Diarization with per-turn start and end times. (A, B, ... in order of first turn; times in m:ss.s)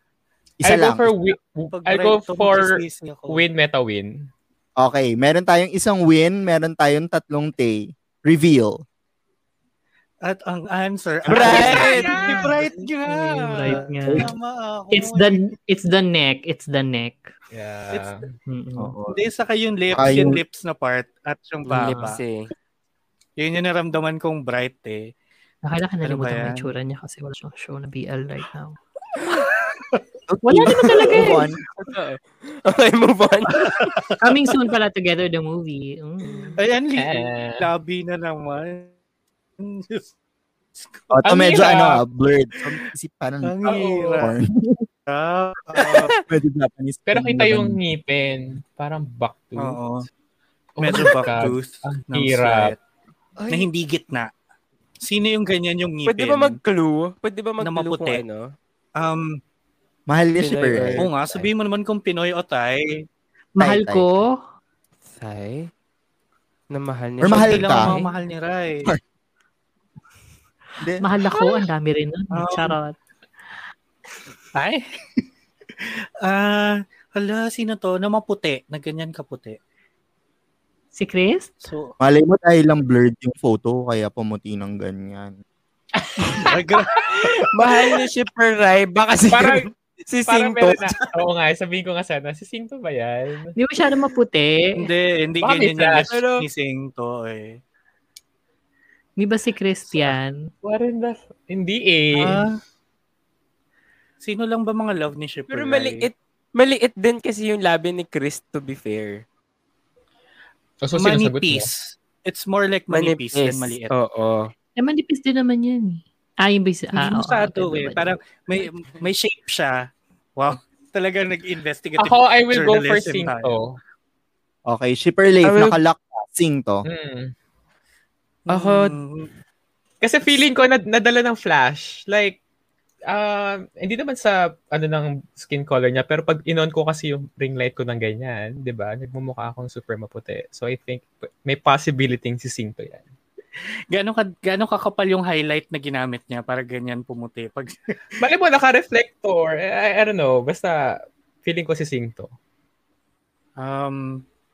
0:00.6-0:01.1 A
0:00.6-0:04.2 B
0:01.7-0:03.4 C
0:04.8-0:08.8 A
0:10.2-0:15.4 C
0:11.3-0:11.7 A
0:11.3-0:12.2 D
0:11.7-0:12.5 B
0:12.1-0:12.5 E
0:13.0-0:14.3 E
0:14.0-0:14.3 A
0:14.9-0:17.3 E
0:17.5-0:18.3 B
0:18.5-0:18.9 E
0:18.8-0:19.2 A
0:19.1-0:22.2 C
0:19.9-0:20.4 A
0:21.6-0:22.5 D
0:21.7-0:22.2 E
0:23.4-0:25.1 C
0:25.6-0:28.8 E
0:26.0-0:26.6 C
0:29.2-0:30.0 C
0:30.3-0:31.6 A
0:30.4-0:31.5 E
0:31.8-0:33.9 D
0:33.7-0:34.0 C
0:34.2-0:36.6 E
0:36.6-0:38.9 C
0:37.0-0:37.6 B
0:39.6-0:40.1 C
0:40.8-0:41.2 C
0:41.1-0:44.9 A
0:41.2-0:42.0 B
0:43.4-0:44.3 C
0:43.6-0:44.2 B
0:45.1-0:46.1 C
0:45.8-0:46.2 D
0:46.3-0:47.8 A
0:47.1-0:49.8 B
0:49.6-0:50.1 C
0:50.8-0:52.7 B
0:50.8-0:52.8 C
0:53.4-0:53.7 D
0:53.5-0:54.3 C
0:55.0-0:56.6 C
0:56.0-0:58.5 D
0:57.6-0:58.2 C
0:59.0-0:59.4 C
1:00.1-1:01.1 A
1:00.4-1:01.5 D
1:01.0-1:03.0 C
1:03.6-1:04.4 E
1:03.6-1:04.2 A
1:05.1-1:05.7 D
1:06.7-1:07.7 D
1:07.2-1:07.9 A
1:07.2-1:08.9 C
1:07.8-1:08.2 E
1:10.8-1:11.1 A
1:11.0-1:13.0 E
1:12.3-1:12.8 C
1:14.6-1:15.2 C
1:15.8-1:19.6 C
1:20.9-1:21.5 E
1:21.6-1:21.9 C
1:22.0-1:25.3 A
1:26.0-1:26.6 B
1:26.3-1:27.9 C
1:27.5-1:31.0 D
1:29.3-1:29.7 B
1:30.2-1:33.6 B
1:33.6-1:34.8 E
1:34.8-1:37.6 C
1:35.4-1:36.1 B
1:36.1-1:36.4 D
1:39.2-1:40.5 E
1:40.6-1:42.4 B
1:42.1-1:42.6 C
1:44.2-1:46.0 C
1:45.5-1:49.2 D
1:50.8-1:51.7 B
1:51.0-1:53.9 C
1:52.9-1:54.5 D
1:54.8-1:58.1 E
1:56.9-1:59.8 C
2:00.4-2:03.5 C
2:02.0-2:03.8 B
2:04.7-2:06.8 A
2:05.4-2:05.8 D
2:06.8-2:07.3 B
2:08.5-2:09.3 C
2:08.5-2:09.0 D
2:10.0-2:12.4 B
2:13.1-2:23.0 B
2:23.9-2:27.7 C
2:28.2-2:30.8 B
2:31.4-2:32.3 B
2:33.6-2:34.2 C